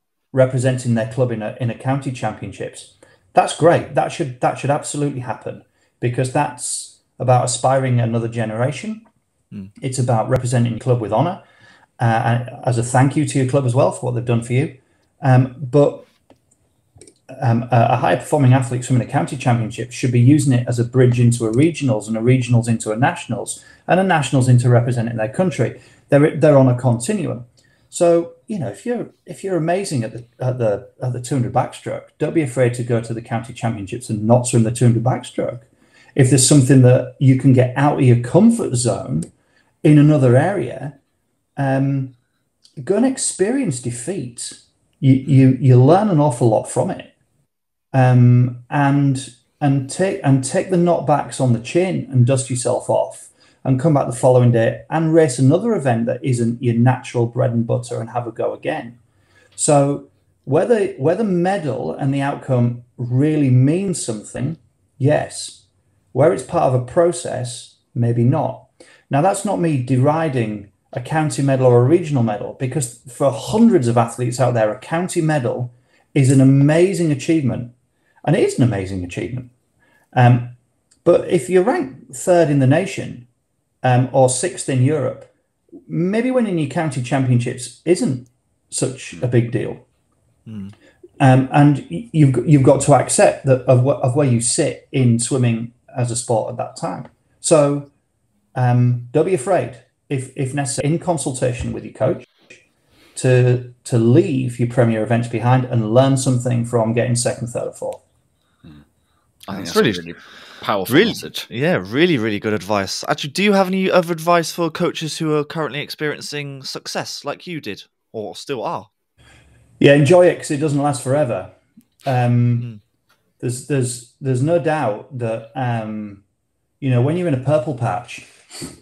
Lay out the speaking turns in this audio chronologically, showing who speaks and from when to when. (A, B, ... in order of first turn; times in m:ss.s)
0:00.3-0:09.0 A
0:09.8-0:11.4 A
0:12.0-0:16.1 A
0:17.3-0:39.3 A
0:39.8-0:41.0 A
0:41.6-0:42.2 A
0:42.8-0:47.1 A
0:47.9-0:59.0 A
0:59.6-1:05.6 A
1:06.1-1:17.7 A
1:18.2-1:19.5 A
1:20.1-1:23.3 A
1:23.8-1:25.3 A
1:25.9-1:29.8 A
1:30.5-1:30.7 B
1:31.2-1:37.9 A
1:38.5-1:42.5 A
1:43.1-1:48.0 A
1:49.4-1:51.5 C
1:49.5-1:50.0 B
1:50.9-1:58.9 B
1:59.8-2:01.5 A
2:02.0-2:02.7 A
2:03.4-2:06.2 A
2:06.8-2:08.3 A